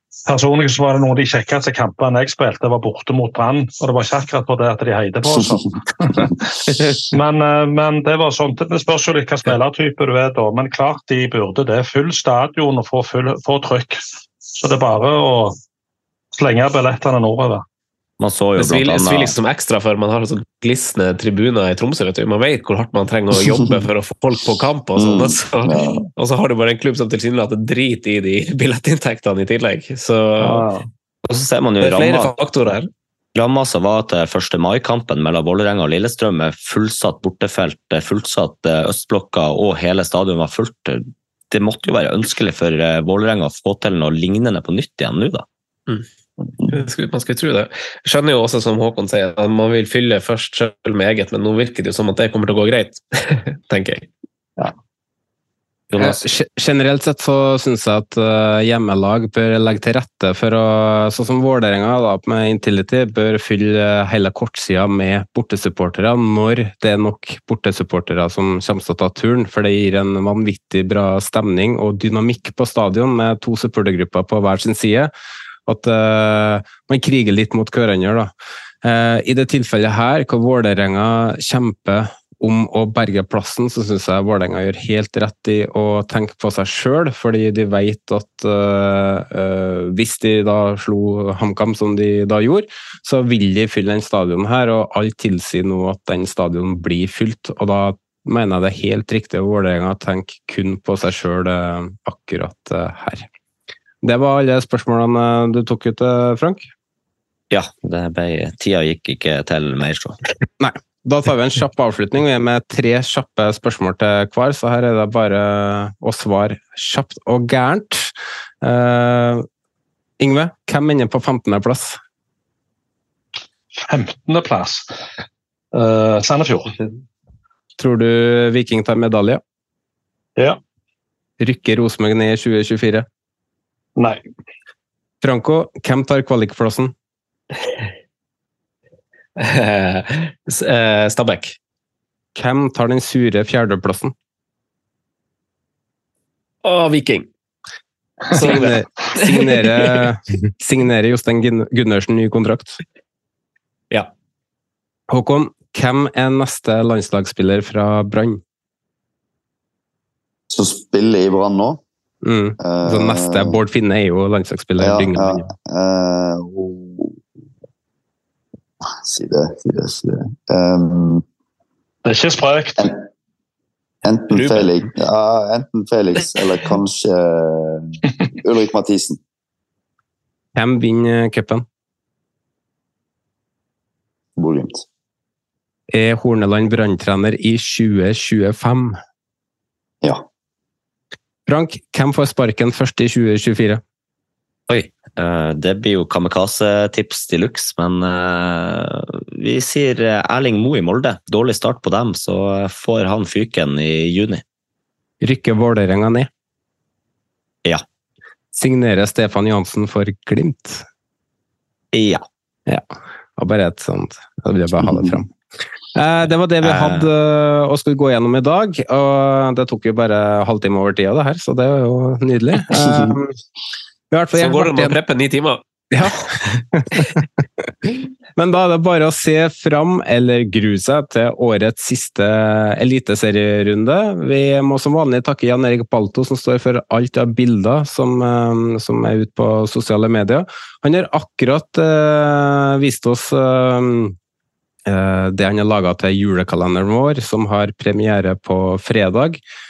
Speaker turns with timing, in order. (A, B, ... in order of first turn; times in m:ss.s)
0:00.3-0:14.0 A
0:14.6-0:15.6 A
0:16.3-0:17.6 A
0:18.2-0:19.4 B
0:18.6-0:30.7 C
0:25.0-0:26.0 D
0:31.3-0:32.3 B
0:31.8-0:32.9 C
0:33.4-0:45.5 B
0:46.7-0:54.1 C
0:55.9-0:56.2 B
0:56.0-1:15.1 E
1:15.7-1:18.3 E
1:18.8-1:43.3 E
1:44.0-1:46.7 E
1:47.5-1:50.2 B
1:50.6-1:59.5 E
2:00.2-2:02.0 E
2:03.8-2:04.9 A
2:05.7-2:06.7 A
2:07.8-2:09.4 E
2:11.4-2:13.1 E
2:15.2-2:16.9 E
2:19.4-2:21.6 C
2:22.4-2:24.1 E
2:26.6-2:27.3 C
2:28.3-2:28.8 C
2:28.4-2:32.8 E
2:28.4-2:28.7 A
2:29.3-2:29.6 C
2:35.1-2:38.4 E
2:40.5-2:41.8 D
2:42.2-2:45.5 E
2:42.6-2:43.6 D
2:44.8-2:47.2 D
2:48.8-2:51.2 D
2:52.0-2:52.9 A
2:54.0-2:59.2 D
2:54.3-2:54.8 C
3:00.6-3:01.6 E
3:04.4-3:04.8 D
3:05.9-3:09.0 E
3:11.5-3:13.8 E
3:14.7-3:24.4 B
3:25.2-3:26.3 E
3:28.6-3:30.8 E
3:31.9-3:32.2 B
3:33.4-3:35.3 E
3:34.8-3:35.1 D
3:36.0-3:43.4 E
3:36.6-3:37.1 B
3:44.1-3:45.0 E
3:44.4-3:45.6 C
3:45.9-3:47.2 E
3:48.4-4:04.2 E
4:04.9-4:09.4 E